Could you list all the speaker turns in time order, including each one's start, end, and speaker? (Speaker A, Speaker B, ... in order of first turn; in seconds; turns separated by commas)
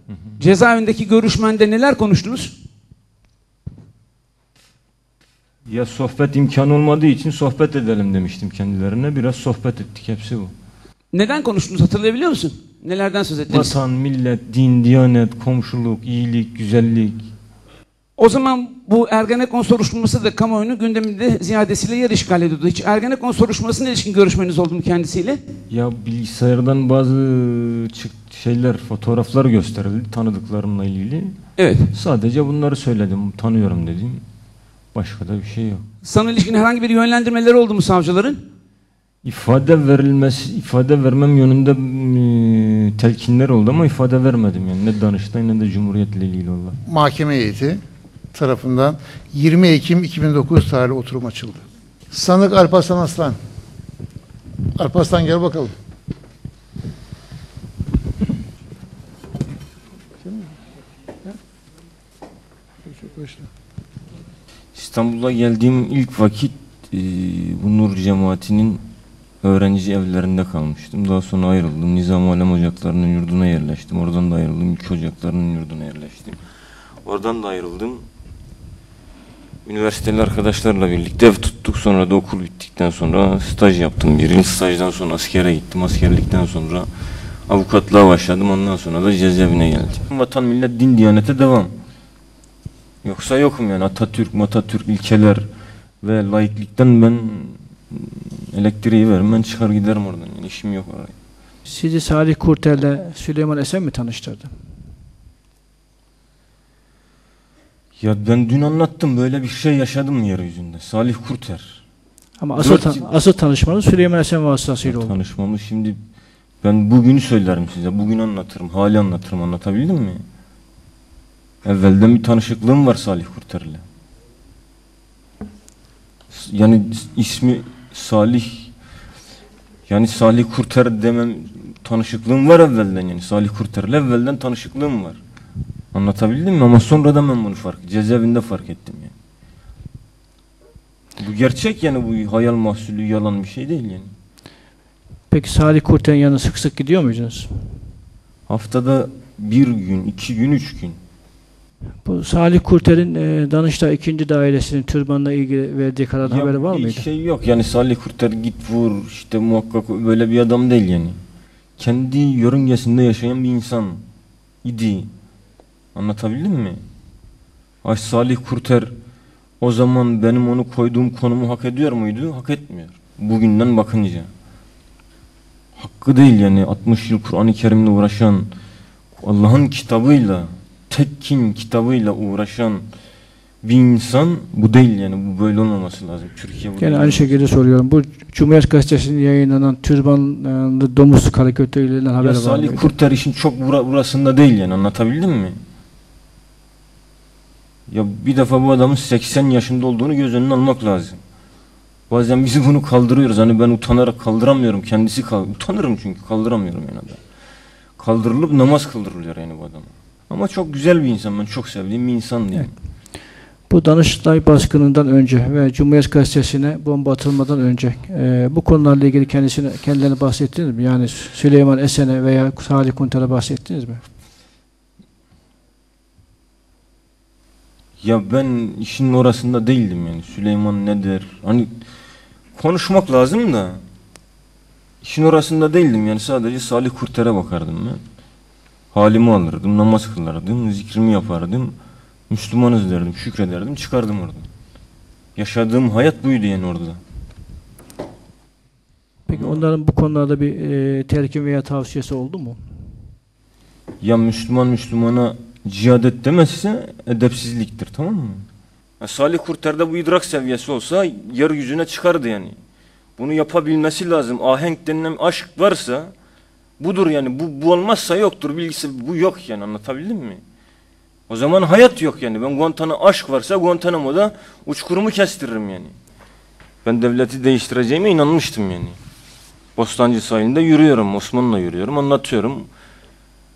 Speaker A: 0.4-2.5, Speaker B: 5.7-10.5, Speaker A: 11.1-13.8, Speaker B: 13.5-17.3, Speaker A: 18.2-25.4, Speaker B: 25.7-31.4, Speaker A: 31.6-31.9, Speaker B: 31.9-34.2, Speaker B: 34.9-35.9, Speaker A: 36.0-38.5, Speaker B: 39.2-46.8, Speaker C: 46.9-47.8, Speaker C: 48.3-53.4, Speaker C: 54.8-55.7, Speaker C: 60.2-60.6, Speaker C: 62.9-63.5, Speaker B: 64.8-68.8, Speaker B: 69.4-76.4, Speaker B: 77.0-78.0, Speaker B: 79.7-86.9, Speaker B: 87.5-91.7, Speaker B: 93.0-95.5, Speaker B: 96.0-101.1, Speaker D: 101.7-104.5, Speaker B: 108.0-111.8, Speaker D: 112.4-115.2, Speaker B: 112.6-113.1, Speaker B: 114.8-116.0, Speaker B: 116.6-120.2, Speaker B: 121.6-123.8, Speaker B: 126.3-128.7, Speaker B: 129.9-135.2, Speaker B: 135.9-139.1, Speaker B: 141.2-144.1, Speaker D: 145.3-147.8, Speaker B: 148.5-151.0, Speaker D: 152.1-157.1, Speaker B: 156.2-161.2, Speaker B: 161.8-164.0, Speaker B: 164.6-165.1, Speaker B: 165.9-166.8, Speaker B: 167.8-168.9, Speaker B: 169.6-174.3, Speaker B: 175.8-178.5, Speaker B: 179.2-182.8, Speaker B: 183.6-187.4, Speaker D: 186.8-192.9, Speaker B: 192.2-195.6, Speaker B: 197.9-201.2, Speaker B: 202.1-207.2, Speaker B: 208.0-212.7, Speaker D: 213.7-224.0, Speaker B: 228.0-231.7, Speaker B: 232.6-233.8, Speaker B: 235.0-238.0, Speaker B: 238.9-241.8, Speaker B: 242.3-244.5, Speaker B: 245.4-247.0, Speaker D: 249.3-253.1, Speaker B: 249.3-249.6, Speaker B: 254.0-258.5, Speaker B: 259.0-262.6, Speaker B: 263.2-266.1, Speaker B: 266.8-270.4, Speaker B: 271.3-275.9, Speaker B: 276.8-279.0, Speaker B: 279.8-282.7